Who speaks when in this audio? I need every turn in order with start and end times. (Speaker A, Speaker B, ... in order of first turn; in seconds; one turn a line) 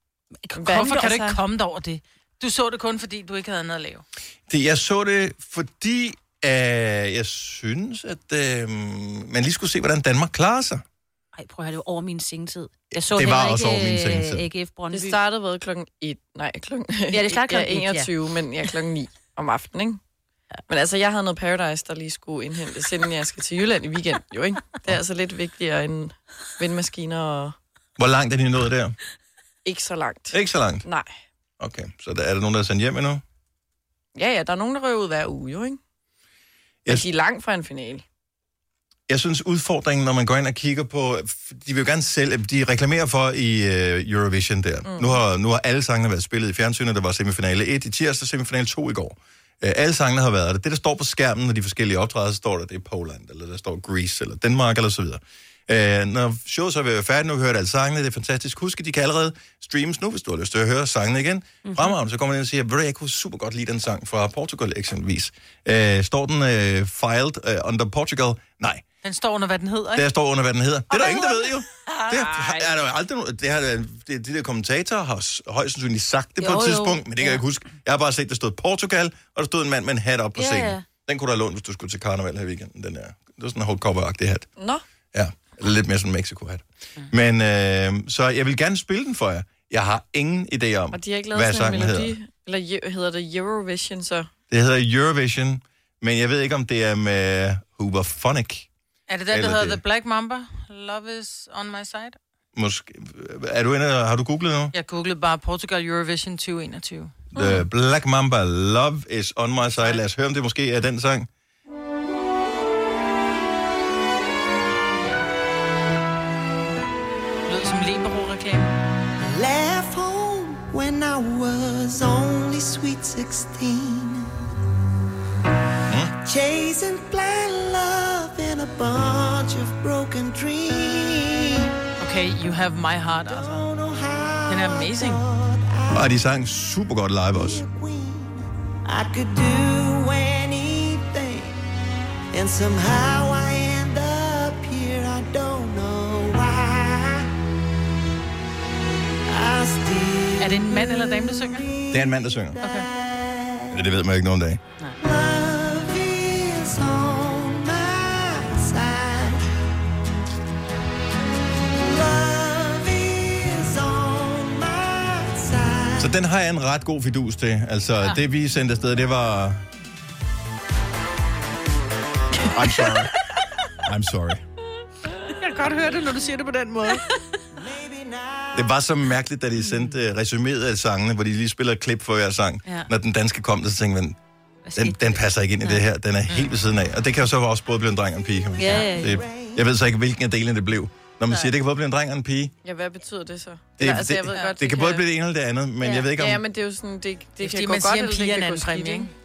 Speaker A: 0.5-4.0
Speaker B: 0.6-1.4
Speaker C: 4.5-10.8
Speaker D: 11.3-15.2
Speaker C: 12.9-14.5
Speaker B: 14.9-20.0
Speaker D: 17.1-18.1
Speaker B: 20.7-27.6
Speaker C: 28.0-29.0
Speaker B: 29.6-31.1
Speaker C: 30.3-30.9
Speaker C: 31.6-33.2
Speaker B: 34.1-35.8
Speaker B: 36.9-38.0
Speaker C: 39.1-68.8
Speaker B: 44.9-45.2
Speaker D: 61.6-61.9
Speaker A: 69.0-70.1
Speaker C: 70.0-84.5
Speaker D: 70.9-72.7
Speaker D: 76.4-77.4
Speaker D: 80.4-80.9
Speaker B: 84.6-84.8
Speaker C: 85.1-92.1
Speaker B: 90.9-94.3
Speaker C: 94.5-98.7
Speaker A: 99.1-102.2
Speaker C: 99.3-99.8
Speaker C: 102.5-104.7
Speaker A: 104.7-107.2
Speaker C: 107.3-111.3
Speaker D: 107.4-107.6
Speaker A: 117.5-118.7
Speaker E: 119.2-124.3
Speaker E: 126.1-131.7
Speaker A: 132.0-133.7
Speaker E: 133.3-136.2
Speaker A: 134.5-135.2
Speaker C: 135.9-137.6
Speaker E: 137.3-141.6
Speaker E: 142.3-147.3
Speaker E: 149.3-153.8
Speaker A: 150.4-151.7
Speaker C: 151.9-152.6
Speaker C: 153.7-154.6
Speaker E: 155.0-159.4
Speaker E: 161.8-166.1
Speaker C: 166.0-169.7
Speaker C: 172.5-173.1
Speaker C: 173.8-174.4
Speaker A: 175.3-177.1
Speaker E: 177.5-178.8
Speaker C: 178.6-184.2
Speaker D: 184.7-185.8
Speaker C: 184.8-192.5
Speaker E: 188.4-189.7
Speaker D: 188.6-189.2
Speaker B: 192.6-195.1
Speaker C: 193.8-196.4
Speaker D: 195.8-196.1
Speaker B: 196.2-199.1
Speaker A: 197.4-199.1